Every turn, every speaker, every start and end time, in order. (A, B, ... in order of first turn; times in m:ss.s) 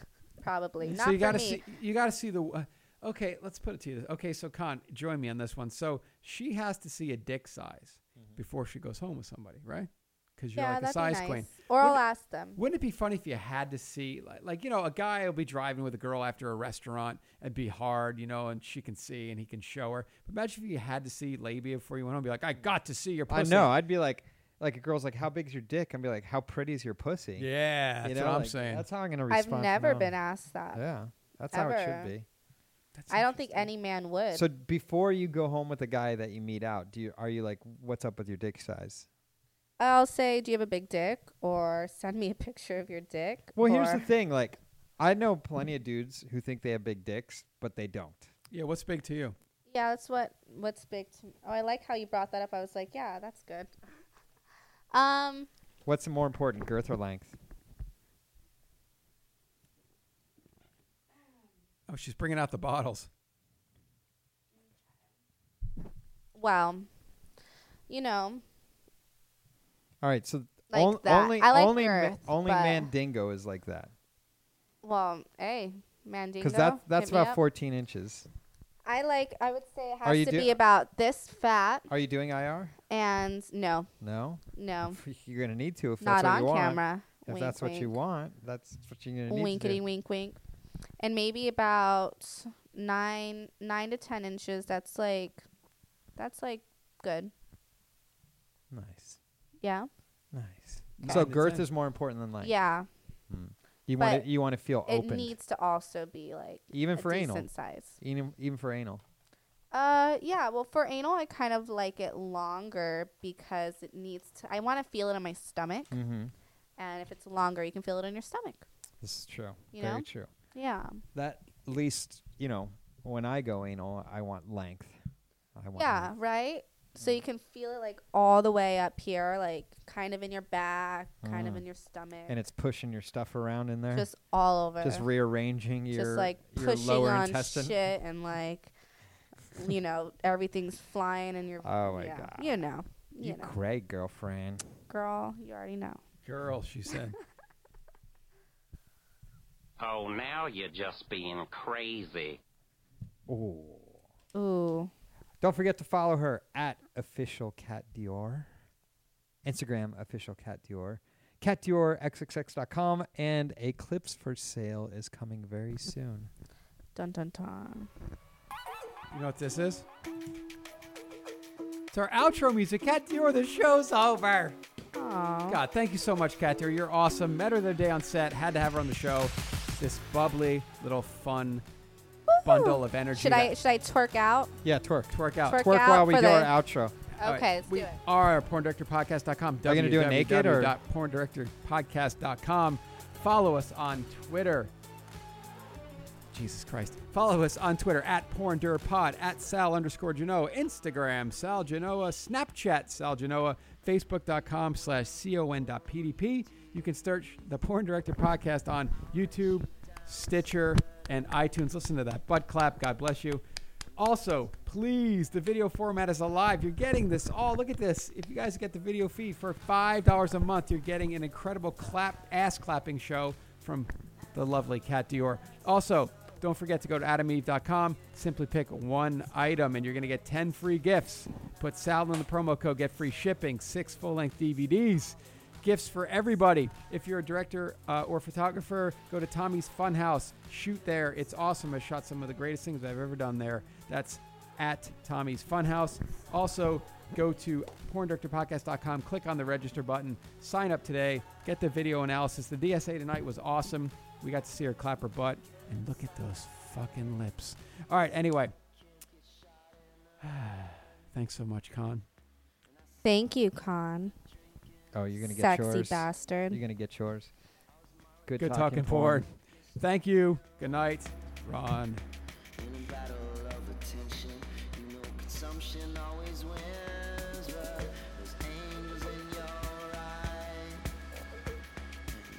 0:00.4-0:01.6 A
0:00.9-0:12.0 B
0:10.6-0:12.6 A
0:12.6-0:23.7 B
0:23.3-0:27.5 C
0:27.4-0:28.9 B
0:28.0-0:30.2 C
0:29.3-0:30.8 A
0:30.7-0:32.3 C
0:31.5-0:32.1 A
0:33.0-0:33.7 B
0:33.1-0:34.5 A
0:34.3-0:39.1 C
0:39.8-0:44.1 A
0:43.6-0:48.3 C
0:48.5-0:49.4 B
0:49.7-0:53.7 A
0:54.9-0:55.5 A
0:55.8-0:57.4 C
1:01.9-1:03.1 B
1:06.4-1:06.9 A
1:07.9-1:08.4 A
1:10.0-1:13.9 C
1:10.7-1:12.9 A
1:14.8-1:17.4 A
1:16.4-1:18.3 C
1:18.8-1:21.9 A
1:20.0-1:20.6 C
1:21.9-1:22.8 C
1:22.9-1:23.9 A
1:24.0-1:29.8 C
1:24.5-1:25.0 A
1:26.0-1:27.9 A
1:29.3-1:30.4 A
1:31.0-1:35.4 A
1:36.2-1:37.3 A
1:38.7-1:39.2 C
1:39.6-1:39.9 A
1:40.3-1:42.6 C
1:41.0-1:41.7 B
1:42.4-1:42.9 A
1:43.3-1:45.4 C
1:44.0-1:44.3 A
1:44.9-1:48.0 A
1:46.7-1:47.5 C
1:48.0-1:49.0 C
1:49.7-1:56.0 A
1:55.9-1:56.3 C
1:56.8-1:58.6 A
1:59.0-2:00.3 C
1:59.7-2:01.0 A
2:01.2-2:05.0 C
2:05.6-2:06.1 C
2:05.8-2:12.4 A
2:11.2-2:11.6 C
2:12.3-2:14.1 C
2:13.9-2:15.1 A
2:14.8-2:17.8 C
2:15.9-2:18.7 A
2:19.5-2:23.5 A
2:21.6-2:22.6 C
2:23.2-2:24.7 C
2:24.9-2:26.0 A
2:26.2-2:27.2 B
2:29.8-2:32.4 D
2:33.3-2:34.0 C
2:34.3-2:34.9 A
2:35.4-2:38.5 C
2:39.4-2:46.3 C
2:47.0-2:47.9 A
2:49.1-2:49.9 B
2:51.9-2:54.6 B
2:54.9-2:55.6 A
2:55.5-3:01.6 B
3:02.3-3:04.5 A
3:02.4-3:03.5 B
3:04.6-3:07.0 C
3:05.1-3:05.7 B
3:05.5-3:06.5 A
3:07.2-3:14.7 B
3:07.2-3:08.0 A
3:09.6-3:10.8 C
3:16.3-3:33.4 B
3:34.0-4:18.5 B
4:20.2-4:22.0 B
4:23.0-4:24.1 A
4:24.9-4:27.3 C
4:25.2-4:26.6 A
4:28.3-4:29.2 C
4:28.4-4:32.0 B
4:32.6-4:40.7 E